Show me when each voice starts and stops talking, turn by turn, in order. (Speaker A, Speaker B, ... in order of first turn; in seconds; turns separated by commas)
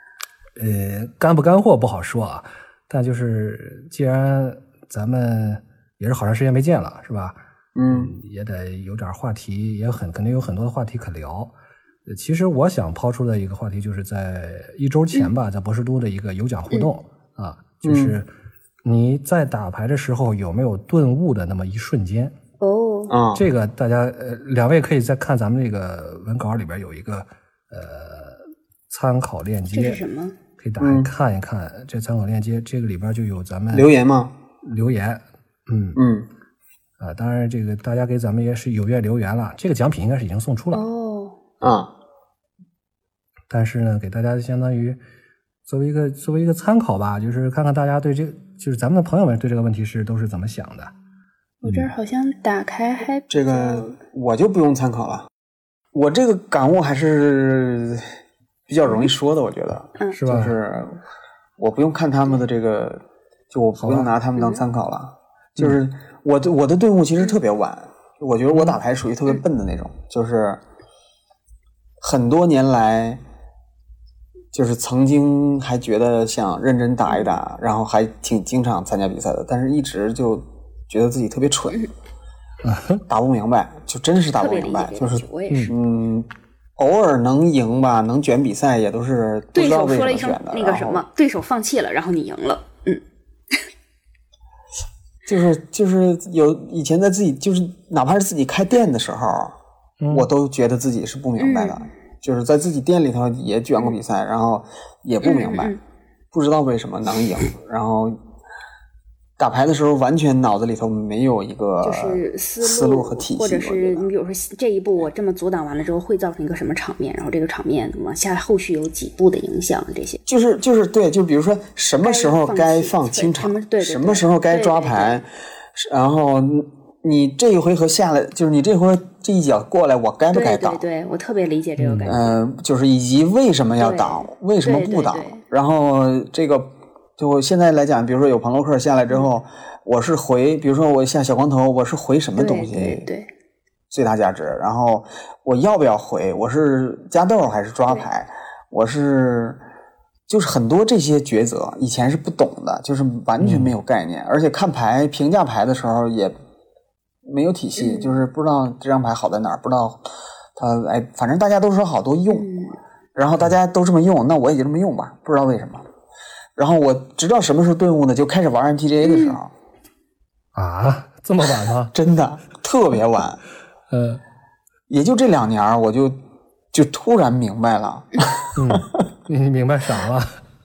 Speaker A: 0.6-7.4, Speaker B: 7.8-8.1, Speaker A: 7.9-11.5, Speaker A: 12.1-18.3, Speaker B: 17.8-18.2, Speaker A: 18.9-22.4, Speaker C: 22.6-23.2, Speaker B: 23.1-23.5, Speaker A: 23.4-30.0, Speaker C: 29.7-30.4, Speaker A: 30.6-33.9, Speaker B: 30.8-31.1, Speaker B: 33.7-34.3, Speaker A: 34.6-36.0, Speaker B: 36.0-36.3, Speaker A: 37.0-40.8, Speaker C: 40.7-41.4, Speaker B: 41.6-41.9, Speaker A: 43.5-45.0, Speaker A: 45.7-50.9, Speaker C: 51.6-54.0, Speaker A: 51.6-51.9, Speaker B: 53.3-55.3, Speaker B: 55.9-58.1, Speaker B: 58.7-61.0, Speaker C: 58.9-59.1, Speaker A: 60.1-60.6, Speaker B: 61.6-70.6, Speaker A: 63.8-64.1, Speaker C: 64.4-64.7, Speaker B: 72.0-73.2, Speaker B: 74.5-81.8, Speaker C: 77.1-77.4, Speaker A: 82.6-83.0, Speaker B: 83.1-91.0, Speaker C: 84.4-85.7, Speaker C: 89.5-93.0, Speaker B: 95.3-99.5, Speaker A: 100.0-100.3, Speaker B: 100.1-105.8, Speaker C: 101.4-101.9, Speaker C: 105.2-105.8, Speaker B: 106.3-108.2, Speaker B: 109.4-114.1, Speaker C: 111.8-120.2, Speaker B: 120.3-130.8, Speaker C: 122.0-125.2, Speaker C: 130.3-132.4, Speaker A: 131.8-132.2, Speaker B: 132.1-143.1, Speaker C: 133.8-135.4, Speaker C: 142.4-143.3, Speaker B: 143.9-149.6, Speaker B: 150.3-156.3, Speaker A: 153.4-153.7, Speaker B: 157.2-160.0, Speaker C: 157.8-158.2, Speaker B: 160.6-162.5, Speaker C: 162.3-162.8, Speaker B: 163.2-165.8, Speaker B: 166.6-169.5, Speaker C: 169.0-169.4, Speaker A: 170.6-171.9, Speaker B: 171.9-173.4, Speaker A: 173.9-174.2, Speaker B: 174.9-176.1, Speaker B: 176.7-178.8, Speaker A: 178.6-180.4